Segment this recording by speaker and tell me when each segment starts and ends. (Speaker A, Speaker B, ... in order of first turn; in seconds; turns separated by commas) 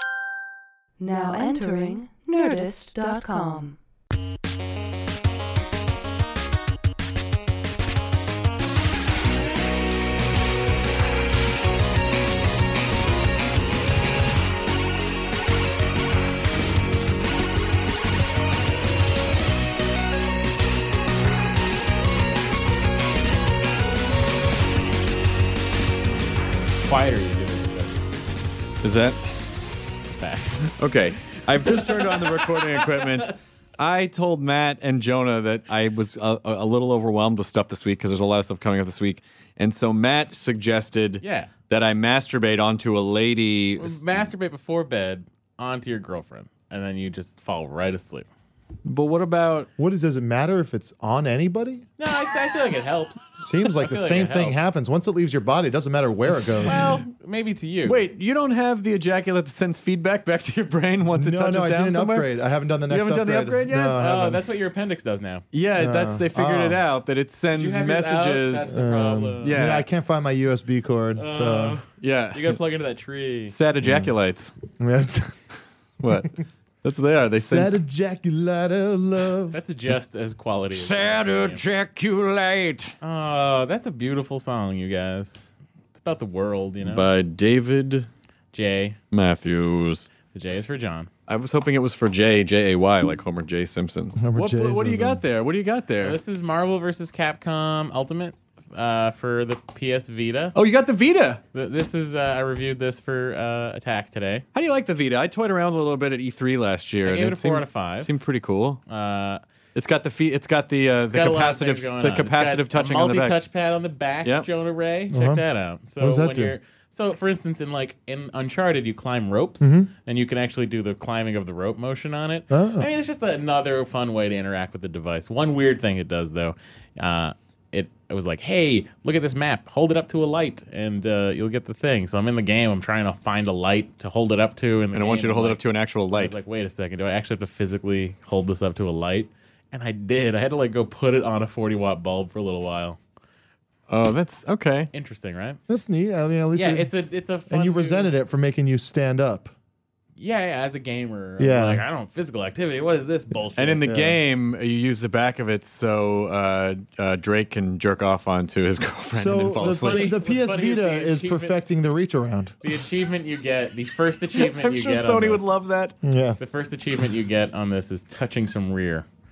Speaker A: 1.0-3.8, Speaker B: 26.8-28.0, Speaker C: 28.8-29.4, Speaker B: 30.2-30.7, Speaker C: 30.7-44.0, Speaker B: 31.6-33.3, Speaker B: 41.2-41.5, Speaker B: 43.8-48.3, Speaker C: 48.9-49.7, Speaker D: 49.8-51.9, Speaker B: 52.0-54.6, Speaker D: 53.4-56.9, Speaker B: 56.6-58.0, Speaker C: 56.6-57.1, Speaker C: 57.9-62.3, Speaker D: 61.1-64.4, Speaker C: 62.9-64.0, Speaker B: 63.8-65.4, Speaker C: 65.5-68.8, Speaker D: 65.8-66.8, Speaker B: 67.5-69.6, Speaker D: 68.7-71.8, Speaker C: 69.4-69.9, Speaker B: 71.2-73.5, Speaker C: 72.0-72.6, Speaker C: 73.5-74.5, Speaker D: 73.8-74.1, Speaker D: 74.8-75.4, Speaker C: 76.0-77.7, Speaker D: 77.4-79.6, Speaker B: 79.5-81.6, Speaker C: 80.7-82.9, Speaker B: 83.0-85.4, Speaker B: 85.9-87.1, Speaker C: 86.8-88.1, Speaker B: 88.5-89.0, Speaker C: 89.1-90.1, Speaker B: 90.3-91.1, Speaker C: 91.3-96.2, Speaker D: 94.2-95.2, Speaker B: 96.0-100.5, Speaker C: 100.5-101.4, Speaker B: 101.5-104.5, Speaker C: 104.5-108.8, Speaker B: 107.0-108.1, Speaker B: 108.9-109.4, Speaker C: 109.7-113.4, Speaker B: 111.1-135.6, Speaker D: 115.1-115.4, Speaker D: 116.0-116.5, Speaker D: 119.6-119.9, Speaker D: 122.5-122.9, Speaker C: 134.9-136.3, Speaker B: 136.1-143.0, Speaker C: 143.9-144.9, Speaker B: 144.9-145.6, Speaker D: 145.7-146.9, Speaker B: 146.6-148.1, Speaker D: 147.5-149.5, Speaker B: 150.2-153.9, Speaker D: 151.4-151.8, Speaker C: 153.6-160.1, Speaker D: 153.9-154.2, Speaker D: 159.1-162.6, Speaker B: 159.7-161.6, Speaker B: 162.6-165.4, Speaker C: 164.3-165.9, Speaker D: 166.0-166.4, Speaker B: 166.4-169.1